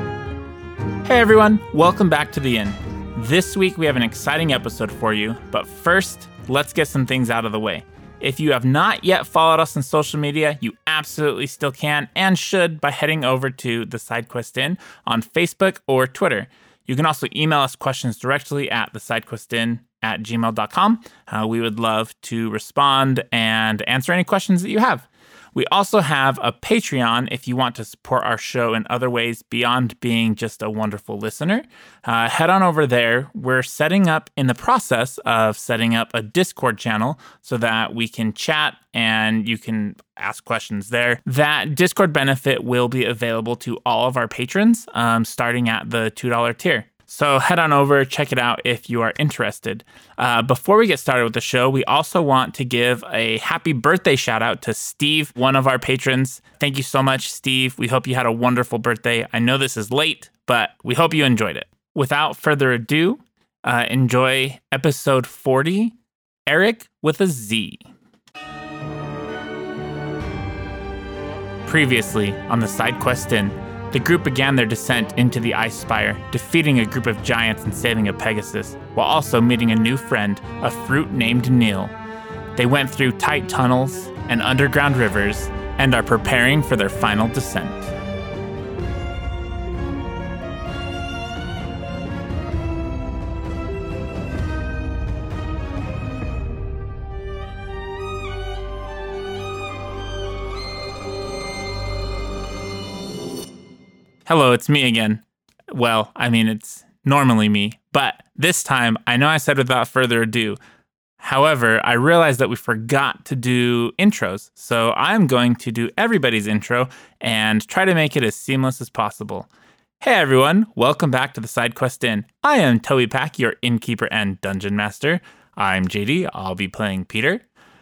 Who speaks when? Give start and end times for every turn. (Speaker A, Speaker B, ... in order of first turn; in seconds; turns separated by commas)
Speaker A: 1.1-66.0, Speaker A: 66.5-67.8, Speaker A: 71.7-81.9, Speaker A: 82.6-87.9, Speaker A: 104.3-110.6, Speaker A: 111.2-119.5, Speaker A: 120.0-127.4